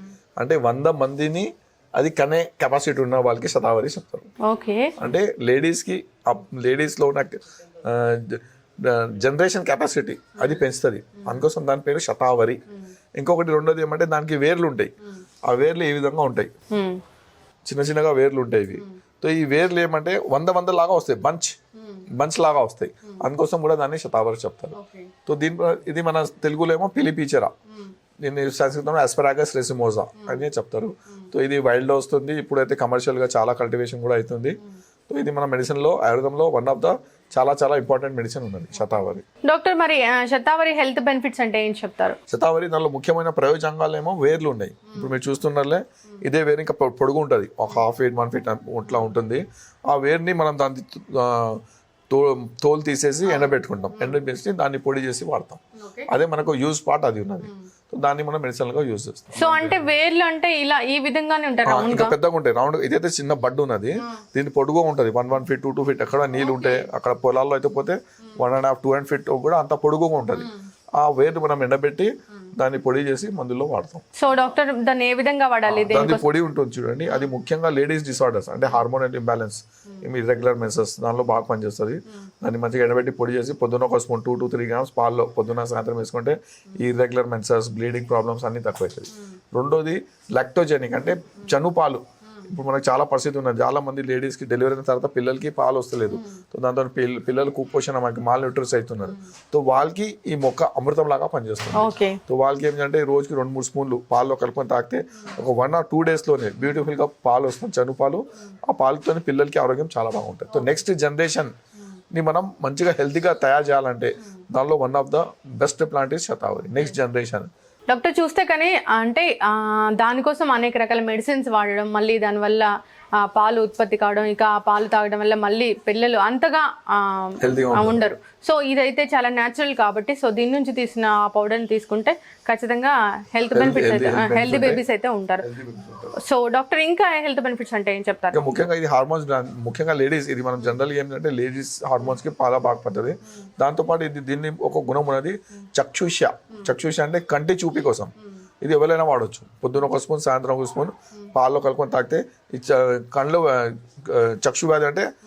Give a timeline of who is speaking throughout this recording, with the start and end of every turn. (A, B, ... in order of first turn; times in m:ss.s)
0:00.4-0:04.3 A
0:04.4-0:04.9 B
0:05.0-0:12.6 A
0:13.2-0:14.9 A
0:15.5-0:16.5 A
0:16.7-0:17.0 B
0:17.7-0:21.6 A
0:22.2-0:24.8 A
0:24.8-0:25.1 B
0:25.3-0:27.5 A
0:28.2-0:34.6 A
0:35.1-0:39.2 A
0:39.4-0:42.2 B
0:42.3-0:59.8 A
0:53.3-0:54.1 B
0:55.8-0:56.1 B
0:59.4-1:02.2 B
1:01.7-1:14.0 A
1:06.4-1:06.9 B
1:14.2-1:16.3 B
1:15.7-1:51.5 A
1:41.7-1:42.2 B
1:52.1-1:57.5 A
1:57.9-2:15.5 B
2:07.4-2:08.0 A
2:13.5-2:14.8 A
2:15.4-2:16.2 A
2:16.2-2:18.5 B
2:18.3-2:28.1 A
2:28.6-2:35.1 A